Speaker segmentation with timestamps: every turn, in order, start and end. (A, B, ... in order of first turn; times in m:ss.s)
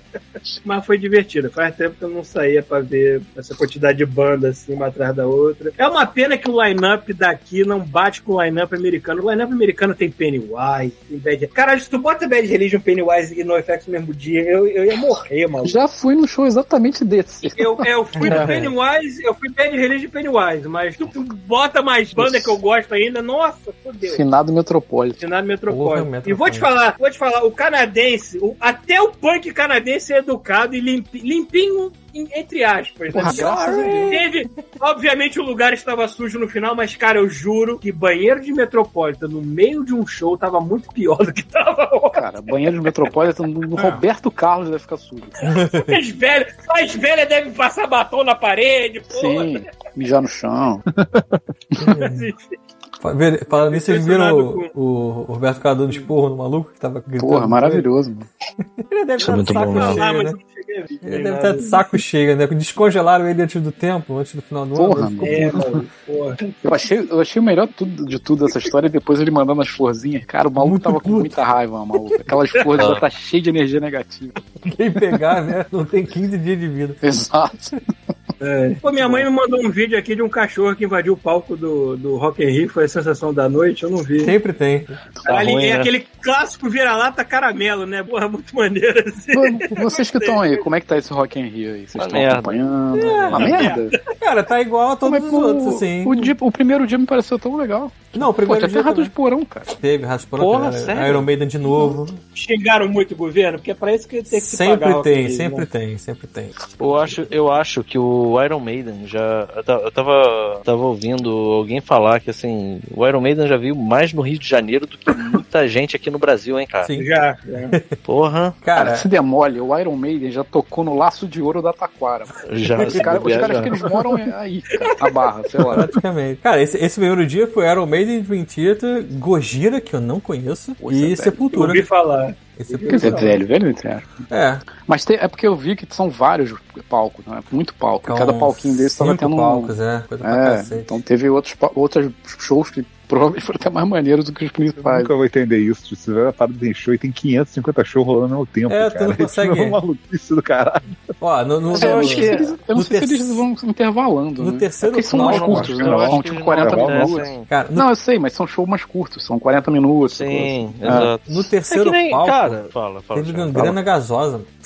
0:00.6-0:15.8 A
0:15.6-0:18.4 B
0:17.4-0:24.2 A
0:18.2-0:18.7 C
0:22.2-0:22.6 B
0:24.1-0:25.2 B
0:25.2-0:42.9 A
0:25.7-0:26.7 C
0:33.1-0:34.2 B
0:33.2-0:34.3 C
0:42.1-0:45.4 B
0:45.4-0:49.6 A
0:45.4-0:46.0 C
0:49.1-0:50.8 B
0:51.0-0:51.3 D
0:51.8-0:52.3 C
0:51.8-0:52.5 A
0:53.0-0:57.9 C
0:53.5-0:54.7 A
0:57.2-0:58.3 B
0:58.8-1:00.4 C
0:59.2-1:00.0 E
0:59.6-1:01.8 A
1:01.0-1:05.6 C
1:04.8-1:05.6 B
1:05.2-1:06.5 A
1:06.6-1:14.4 B
1:10.6-1:11.5 C
1:12.6-1:12.9 A
1:12.8-1:13.0 E
1:14.6-1:17.0 C
1:17.0-1:17.8 B
1:18.4-1:24.4 A
1:24.2-1:24.9 C
1:25.3-1:25.9 E
1:25.3-1:30.6 A
1:29.3-1:34.0 B
1:32.0-1:32.6 E
1:32.9-1:36.3 C
1:33.2-1:33.6 E
1:33.4-1:34.0 A
1:35.0-1:39.7 B
1:38.1-1:39.1 C
1:39.7-1:42.2 C
1:40.4-1:41.3 E
1:42.3-1:45.7 A
1:44.3-1:46.8 C
1:46.8-1:56.9 E
1:56.8-1:57.1 C
1:57.0-1:57.8 A
1:58.0-1:58.6 E
1:58.6-1:59.1 C
1:58.8-2:05.9 B
2:02.5-2:03.8 E
2:02.8-2:03.6 C
2:04.8-2:05.2 A
2:05.7-2:11.8 C
2:10.8-2:11.4 B
2:11.5-2:13.4 A
2:12.6-2:13.4 C
2:12.9-2:14.3 B
2:14.3-2:14.6 C
2:14.8-2:19.7 B
2:18.0-2:21.0 C
2:20.2-2:25.1 B
2:24.8-2:30.9 D
2:28.7-2:29.8 C
2:31.2-2:33.5 C
2:31.7-2:32.6 E
2:31.7-2:41.1 B
2:34.4-2:35.9 C
2:35.2-2:37.3 D
2:35.2-2:37.5 E
2:37.5-2:37.9 C
2:40.1-2:43.7 E
2:40.8-2:42.6 C
2:43.1-2:44.5 C